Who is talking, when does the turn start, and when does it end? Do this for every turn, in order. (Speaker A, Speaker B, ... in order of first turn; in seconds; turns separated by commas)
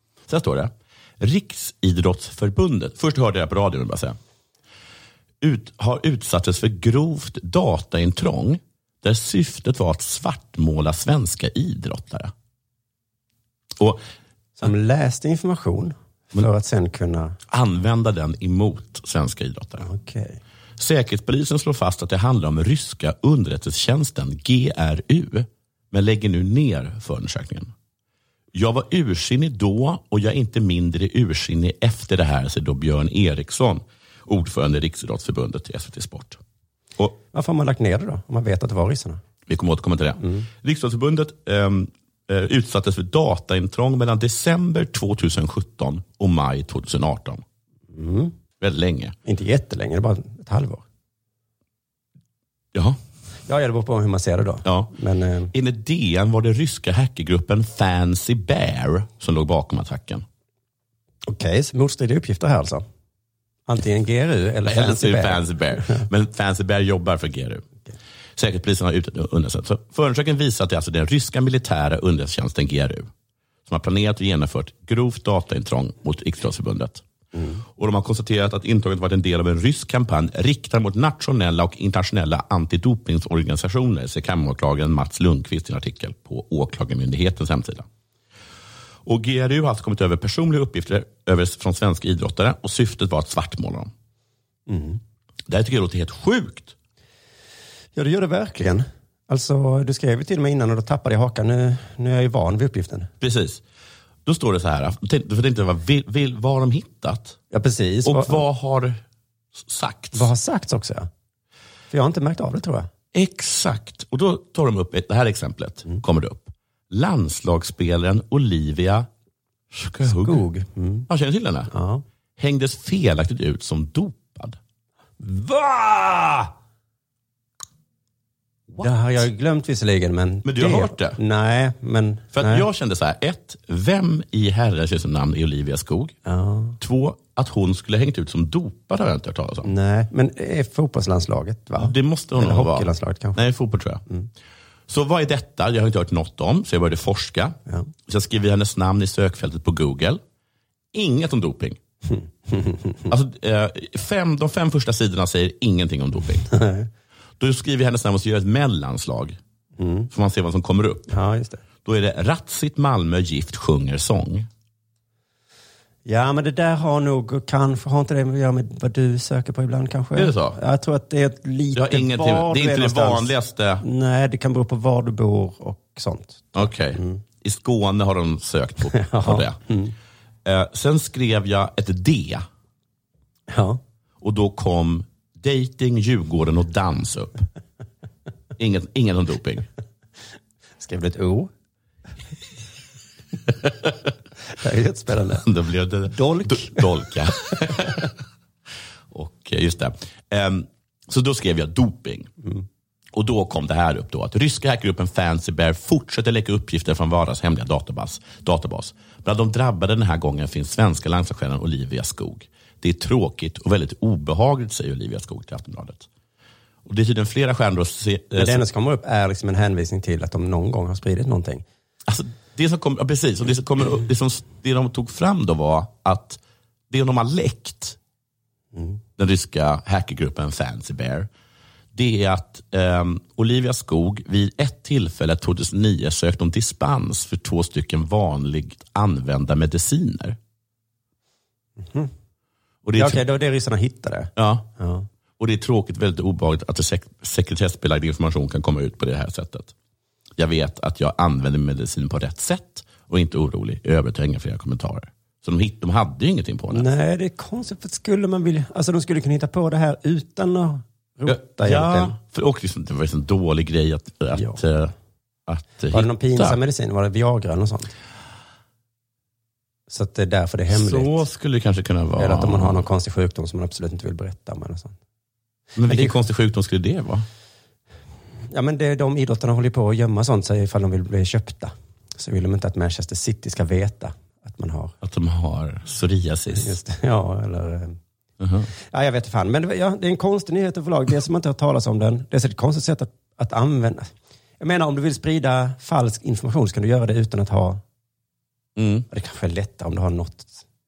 Speaker A: 0.3-4.2, Speaker A: 5.4-12.3, Speaker B: 14.6-17.4, Speaker A: 17.5-19.9, Speaker B: 19.8-20.4, Speaker A: 20.8-27.7, Speaker A: 28.5-36.4, Speaker B: 37.3-39.2, Speaker A: 39.5-47.4, Speaker B: 40.2-40.5, Speaker B: 47.9-48.3, Speaker A: 48.6-49.1, Speaker B: 49.2-50.8, Speaker A: 52.7-53.0, Speaker B: 53.5-55.5, Speaker A: 54.6-54.9, Speaker A: 55.5-60.2, Speaker B: 61.3-62.8, Speaker B: 63.7-66.0, Speaker A: 64.7-67.6, Speaker A: 68.4-73.1, Speaker A: 73.7-77.0, Speaker B: 77.3-77.6, Speaker A: 77.7-87.9, Speaker A: 89.0-93.9, Speaker B: 94.7-95.0, Speaker A: 95.5-96.8, Speaker B: 98.0-103.1, Speaker A: 103.2-103.6, Speaker A: 104.2-107.4, Speaker B: 107.5-108.4, Speaker A: 108.0-109.0, Speaker A: 109.5-110.3, Speaker B: 110.1-111.1, Speaker B: 111.9-112.9, Speaker A: 113.1-119.1, Speaker A: 119.7-120.4, Speaker B: 120.0-121.1, Speaker A: 121.1-121.7, Speaker B: 121.7-122.0, Speaker A: 122.4-124.6, Speaker B: 125.2-126.5, Speaker B: 128.8-132.7, Speaker A: 130.4-131.2, Speaker A: 132.3-136.2, Speaker B: 136.2-136.8, Speaker A: 136.8-139.7, Speaker B: 139.6-143.4, Speaker A: 141.8-144.0, Speaker A: 144.9-150.2, Speaker A: 150.9-151.8, Speaker B: 152.1-153.1, Speaker A: 153.1-156.5, Speaker B: 156.5-156.9, Speaker A: 157.4-159.4, Speaker B: 159.8-160.1, Speaker A: 160.1-161.1, Speaker B: 161.1-161.6, Speaker A: 161.8-164.5, Speaker B: 166.0-177.2, Speaker A: 170.2-170.6, Speaker A: 171.7-173.8, Speaker A: 176.5-179.6, Speaker B: 178.9-179.9, Speaker A: 180.4-182.4, Speaker B: 183.5-183.8, Speaker A: 184.2-187.4, Speaker A: 188.6-189.7, Speaker B: 190.8-191.5, Speaker B: 194.5-195.4, Speaker A: 195.3-198.1, Speaker B: 196.1-196.8, Speaker A: 199.1-202.3, Speaker A: 203.1-216.1, Speaker A: 216.8-218.6, Speaker B: 218.3-221.6, Speaker A: 222.1-228.0, Speaker B: 228.7-229.0, Speaker A: 229.2-231.3, Speaker A: 231.9-240.4, Speaker B: 241.8-242.1, Speaker A: 242.8-243.2, Speaker B: 243.0-245.1, Speaker A: 244.3-244.7, Speaker A: 245.4-249.7, Speaker A: 250.4-256.9, Speaker B: 256.7-262.1, Speaker A: 261.2-264.9, Speaker B: 264.3-264.6, Speaker A: 265.5-266.6, Speaker B: 265.9-267.9, Speaker B: 269.9-271.2, Speaker A: 270.7-272.8, Speaker B: 272.2-274.9, Speaker A: 275.8-277.2, Speaker B: 275.9-276.1, Speaker B: 278.5-284.9, Speaker A: 285.0-286.8, Speaker B: 286.5-288.0, Speaker A: 288.4-288.7, Speaker B: 288.9-297.8, Speaker A: 298.8-299.1, Speaker B: 299.1-300.6